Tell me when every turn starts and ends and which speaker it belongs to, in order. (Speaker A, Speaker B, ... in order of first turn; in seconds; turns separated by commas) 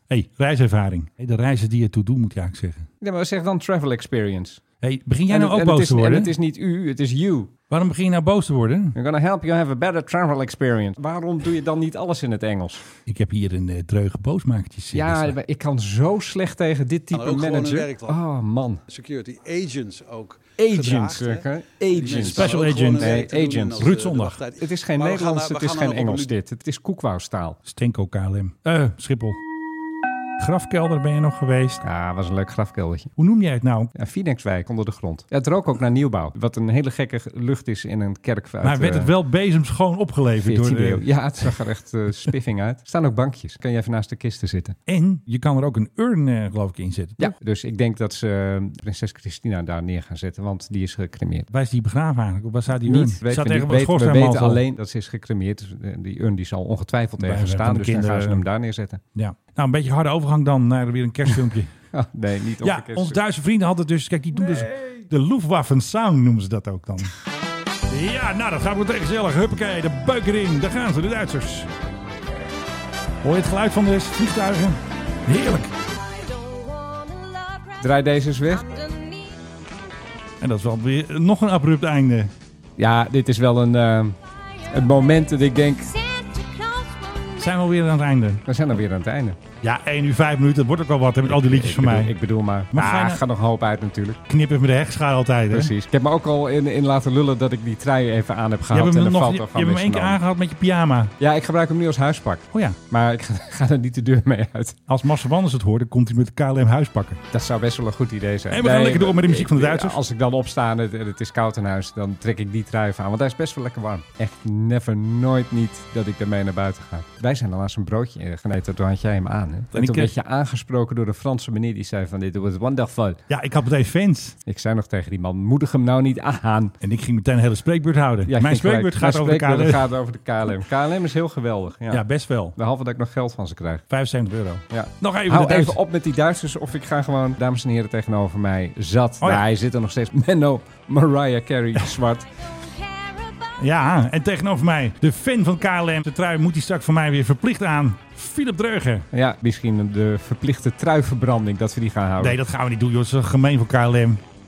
Speaker A: 0.1-2.9, Speaker B: 3.0-4.6, Speaker A: 4.8-6.3, Speaker B: 5.3-7.5, Speaker A: 7.7-9.0, Speaker B: 8.9-12.8, Speaker A: 13.1-15.4, Speaker B: 14.9-18.8, Speaker C: 17.1-18.2, Speaker C: 18.9-26.3, Speaker B: 20.6-23.9, Speaker A: 22.1-24.4, Speaker B: 24.6-27.6, Speaker A: 27.6-29.4, Speaker A: 30.4-31.8, Speaker B: 31.8-33.1, Speaker A: 33.2-33.9, Speaker B: 33.9-39.1, Speaker A: 38.6-41.5, Speaker B: 40.4-44.8, Speaker A: 44.9-47.4, Speaker B: 47.2-51.5, Speaker A: 51.5-54.6, Speaker B: 52.9-59.0, Speaker A: 57.2-58.5, Speaker A: 59.1-61.7, Speaker B: 61.9-63.2, Speaker A: 62.6-67.1, Speaker A: 67.9-71.7, Speaker A: 73.2-75.8, Speaker B: 77.8-78.7, Speaker A: 80.4-82.3, Speaker B: 82.8-84.2, Speaker B: 84.7-86.0, Speaker A: 87.4-88.4, Speaker B: 88.5-89.4, Speaker A: 89.6-92.2, Speaker B: 91.2-94.2, Speaker A: 92.7-93.2, Speaker A: 94.3-95.7, Speaker B: 95.5-100.2, Speaker A: 98.7-101.1, Speaker B: 101.2-104.8, Speaker A: 102.5-102.8, Speaker A: 104.9-107.2, Speaker B: 107.3-123.2, Speaker A: 108.5-110.0, Speaker A: 119.7-120.1, Speaker A: 123.3-124.4, Speaker B: 124.5-126.7, Speaker A: 126.8-129.9, Speaker B: 128.3-133.9, Speaker A: 131.9-132.6, Speaker A: 133.9-135.8, Speaker B: 134.7-142.4, Speaker A: 139.2-139.5, Speaker A: 143.6-149.1, Speaker B: 149.1-152.4, Speaker A: 152.2-154.2